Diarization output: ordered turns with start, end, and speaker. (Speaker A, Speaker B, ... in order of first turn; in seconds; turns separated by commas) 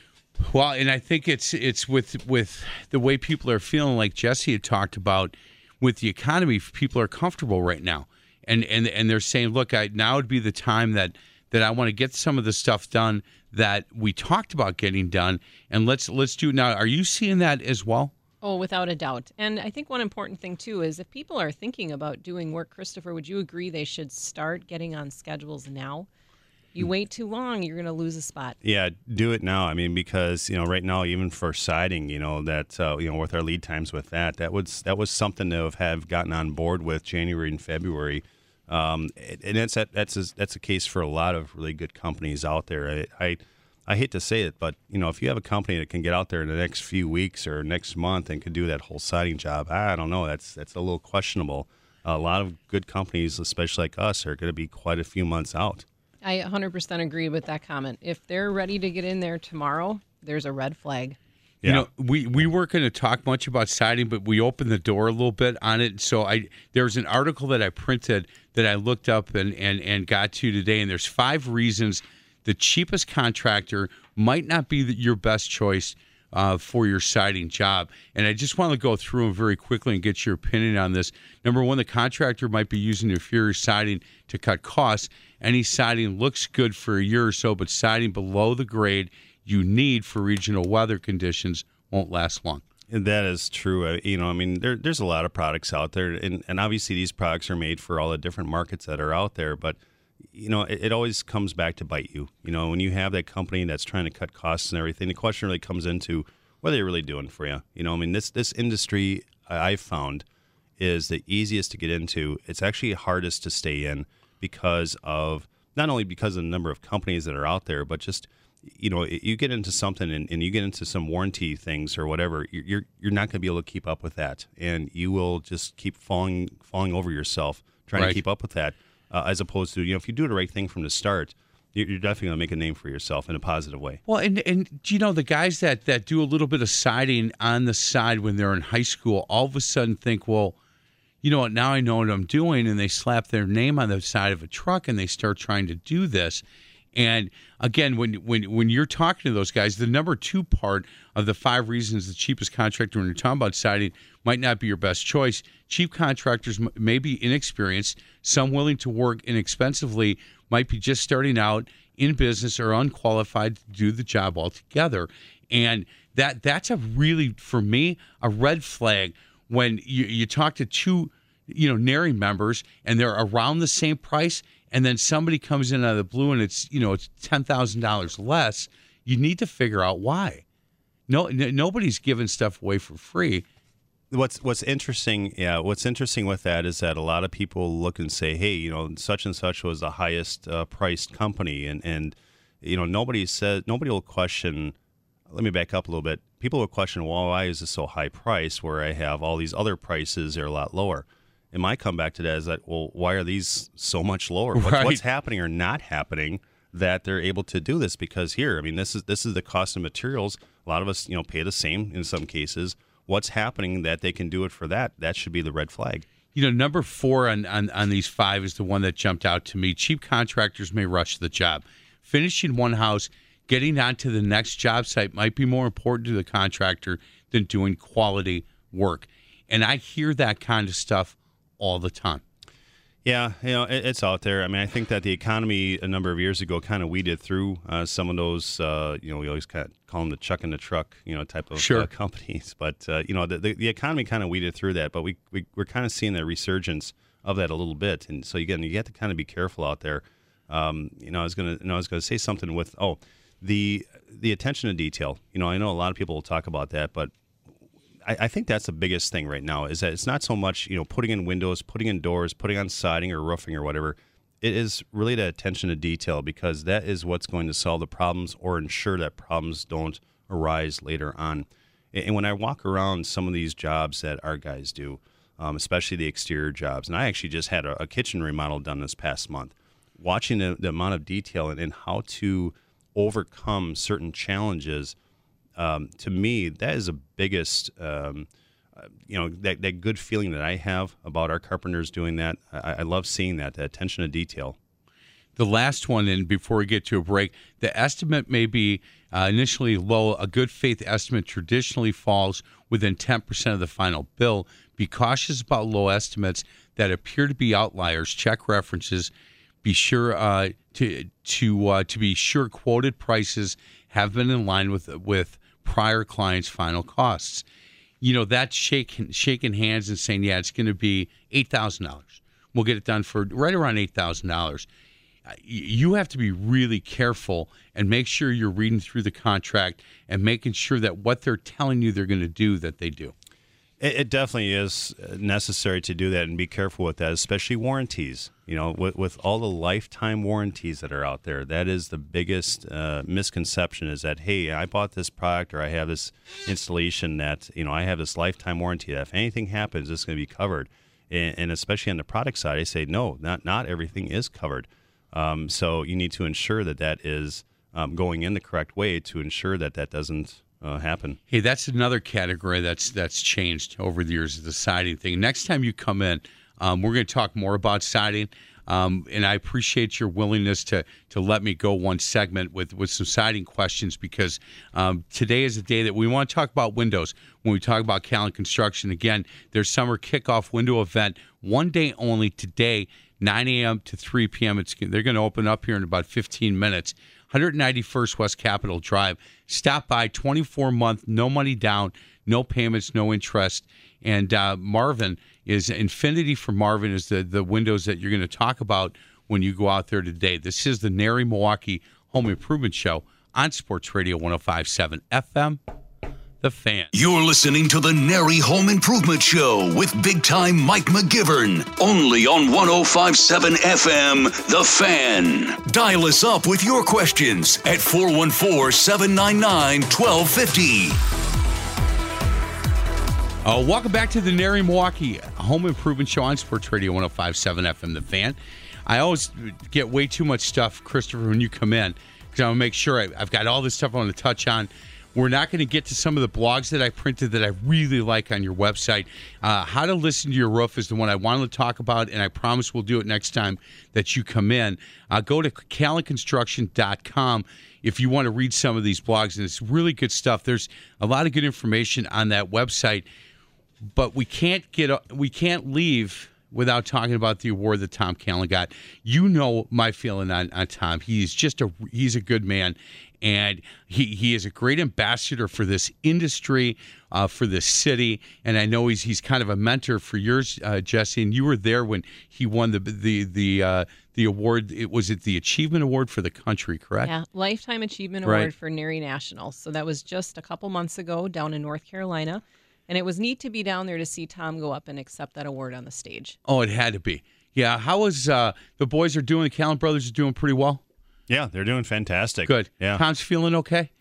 Speaker A: 0.4-18.1, Speaker B: 18.4-26.1, Speaker B: 26.7-28.6, Speaker C: 28.6-55.8, Speaker B: 56.2-61.2, Speaker A: 61.6-92.6, Speaker C: 92.9-99.8, Speaker C: 100.3-110.2, Speaker C: 110.8-134.0, Speaker A: 134.1-140.6, Speaker A: 141.2-146.4, Speaker A: 146.9-180.4, Speaker A: 181.1-183.4, Speaker C: 184.1-194.8, Speaker C: 195.3-216.1, Speaker A: 204.5-205.0, Speaker A: 216.3-232.2, Speaker C: 233.0-257.1, Speaker A: 241.6-241.9, Speaker C: 258.0-284.9, Speaker C: 285.6-294.6, Speaker A: 295.4-309.1, Speaker A: 309.6-317.4, Speaker A: 318.0-324.7, Speaker A: 325.3-333.1, Speaker C: 333.8-361.2, Speaker A: 361.3-405.6, Speaker A: 406.4-406.9, Speaker D: 406.9-421.0, Speaker A: 423.4-453.1, Speaker A: 453.9-477.1, Speaker B: 477.0-486.4, Speaker A: 478.2-478.5, Speaker A: 486.4-490.8, Speaker C: 491.3-493.0, Speaker A: 492.5-493.9